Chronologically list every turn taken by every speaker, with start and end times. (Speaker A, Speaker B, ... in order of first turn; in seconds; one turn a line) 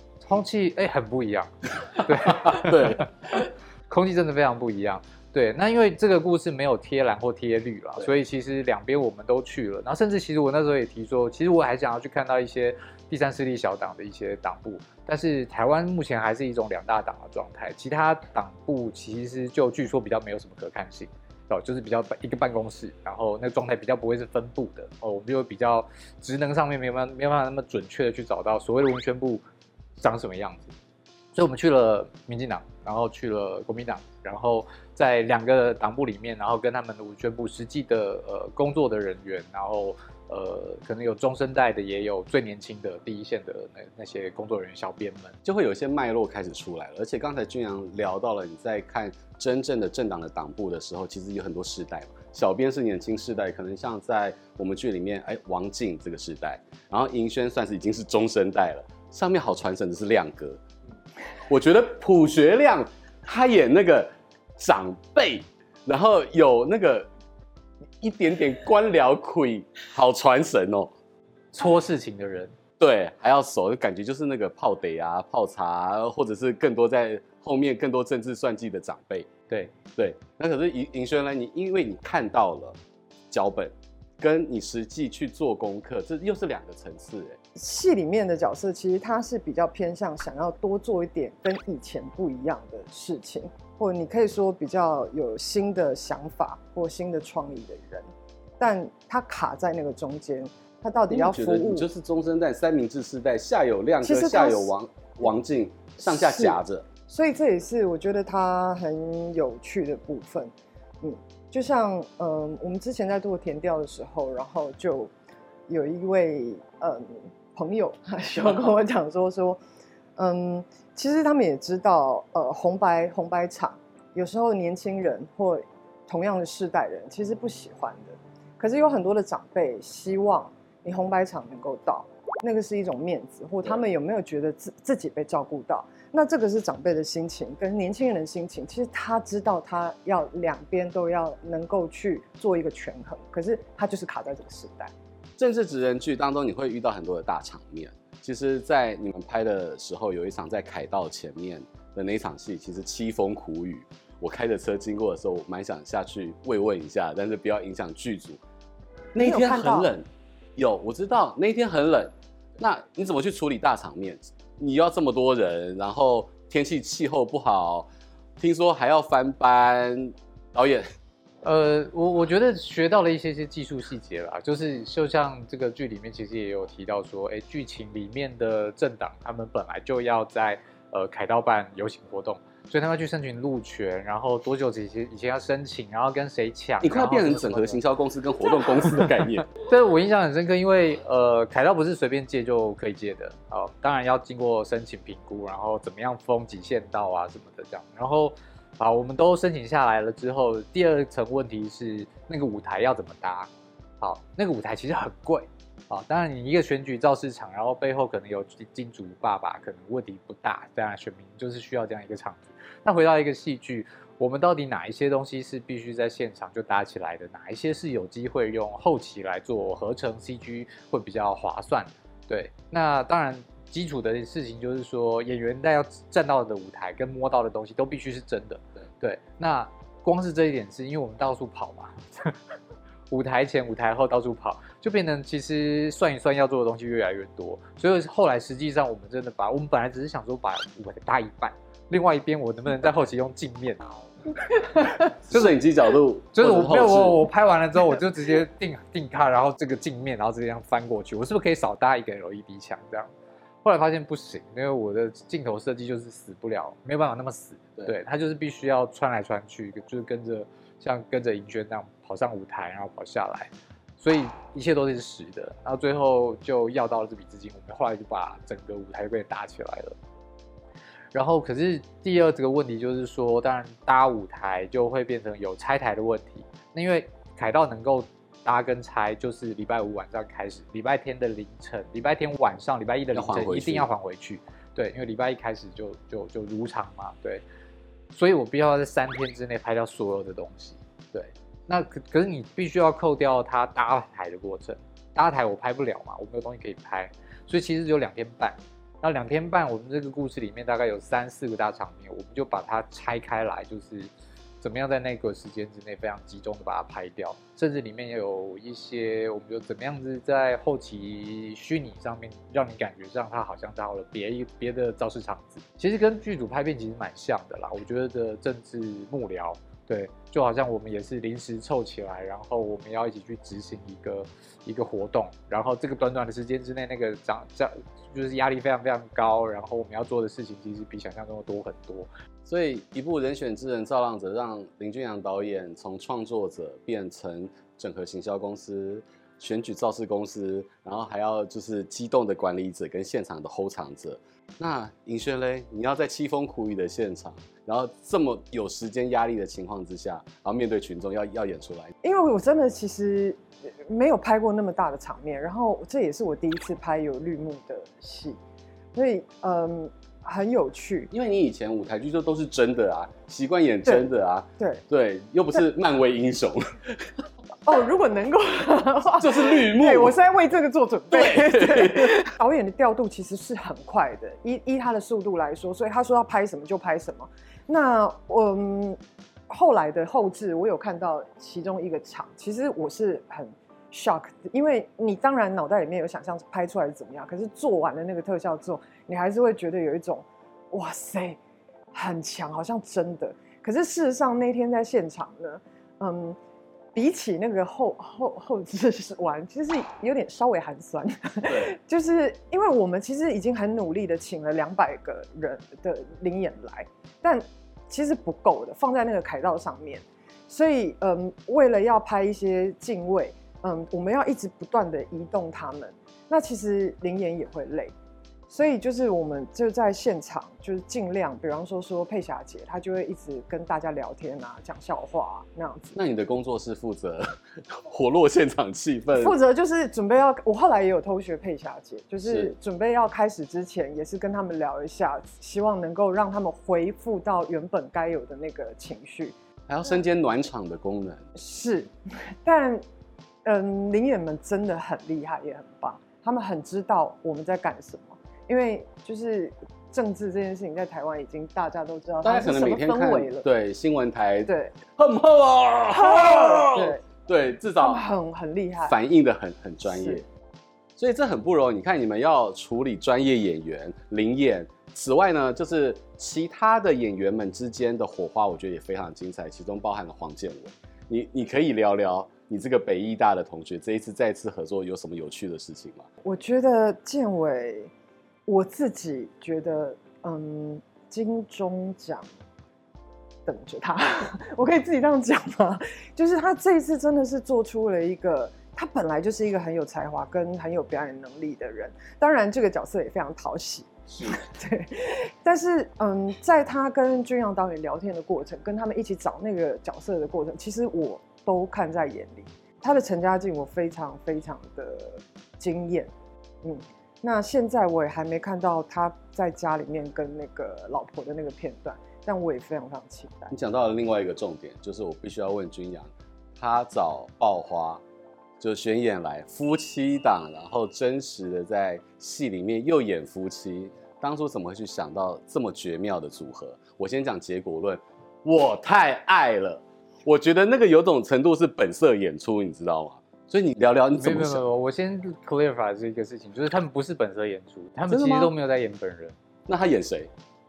Speaker A: 0.2-3.1
Speaker B: 2.4-3.4
Speaker A: 3.9-29.4
Speaker A: 30.0-30.7
Speaker A: 31.3-45.4
Speaker B: 45.4-60.6
Speaker B: 61.5-67.1
Speaker B: 68.0-70.9
Speaker A: 71.5-72.5
Speaker B: 72.8-79.3
Speaker B: 80.0-82.8
Speaker B: 83.3-87.4
Speaker C: 87.5-98.1
Speaker C: 98.6-101.9
Speaker B: 101.1-106.8
Speaker C: 104.0-104.7
Speaker C: 106.1-115.1
Speaker C: 115.7-119.6
Speaker C: 120.2-144.9
Speaker B: 145.4-158.4
Speaker B: 159.1-167.9
Speaker C: 159.2-159.9
Speaker B: 168.4-170.8
Speaker A: 171.4-187.8
Speaker B: 186.8-189.5
Speaker A: 188.9-232.3
Speaker A: 233.1-245.6
Speaker B: 245.2-247.2
Speaker A: 246.3-253.1
Speaker A: 253.6-269.9
Speaker A: 271.1-287.4
Speaker B: 283.1-283.9
Speaker A: 288.1-332.1
Speaker B: 332.4-351.9
Speaker C: 352.0-358.4
Speaker C: 358.9-361.1
Speaker B: 361.1-367.2
Speaker C: 364.6-364.8
Speaker C: 367.6-379.0
Speaker B: 369.2-370.1
Speaker B: 371.1-372.2
Speaker C: 379.5-391.4
Speaker C: 391.9-396.4
Speaker C: 396.9-417.9
Speaker B: 401.5-401.7
Speaker C: 418.5-426.0
Speaker B: 425.9-429.4
Speaker C: 429.1-439.3
Speaker B: 432.2-432.5
Speaker B: 439.7-441.3
Speaker C: 441.4-442.8
Speaker C: 443.4-453.5
Speaker B: 452.2-458.0
Speaker C: 454.4-454.8
Speaker C: 455.9-457.0
Speaker C: 457.8-459.0
Speaker B: 458.8-460.2
Speaker C: 459.9-460.2
Speaker B: 461.0-476.1
Speaker C: 476.2-477.9
Speaker C: 478.5-482.2
Speaker C: 483.4-506.1
Speaker C: 506.6-513.6
Speaker B: 513.5-518.0
Speaker B: 518.6-534.6
Speaker A: 534.2-539.4
Speaker B: 538.1-538.5
Speaker B: 539.7-540.3